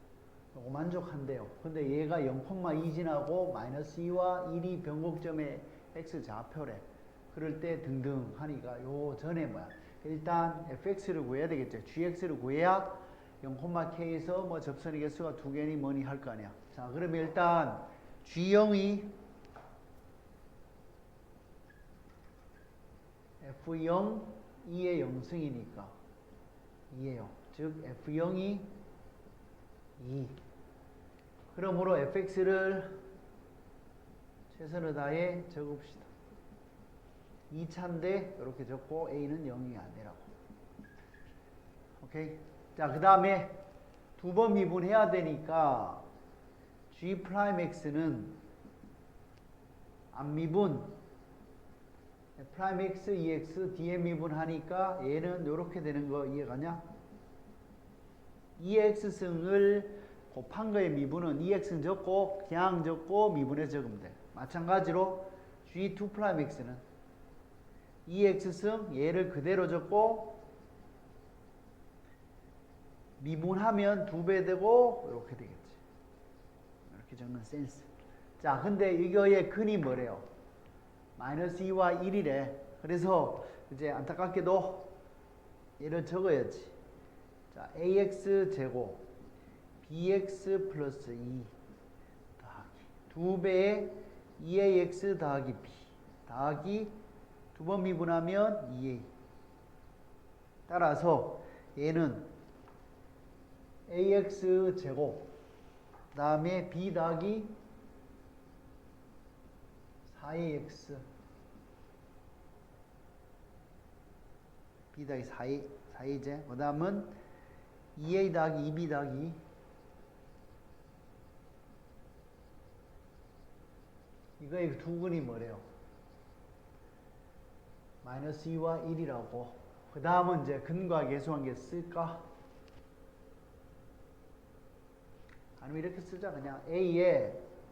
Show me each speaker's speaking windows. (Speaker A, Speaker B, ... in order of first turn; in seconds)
Speaker A: 0.5-19.1, 23.4-25.9, 26.9-28.7, 30.0-30.4, 31.5-33.0, 34.5-36.1, 37.5-40.3, 42.0-43.6, 44.2-46.1, 46.9-48.4, 50.1-51.0, 52.4-56.9, 58.6-66.8, 68.1-70.5, 73.2-75.8, 76.9-77.9, 78.4-80.3, 81.2-85.0, 85.8-86.8, 87.5-89.1, 89.8-91.5, 92.4-97.0, 97.5-99.1, 100.7-102.3, 103.9-105.3, 106.1-107.5, 110.1-111.0, 114.9-117.2, 118.0-119.4, 124.4-125.7, 128.0-132.3, 135.6-137.4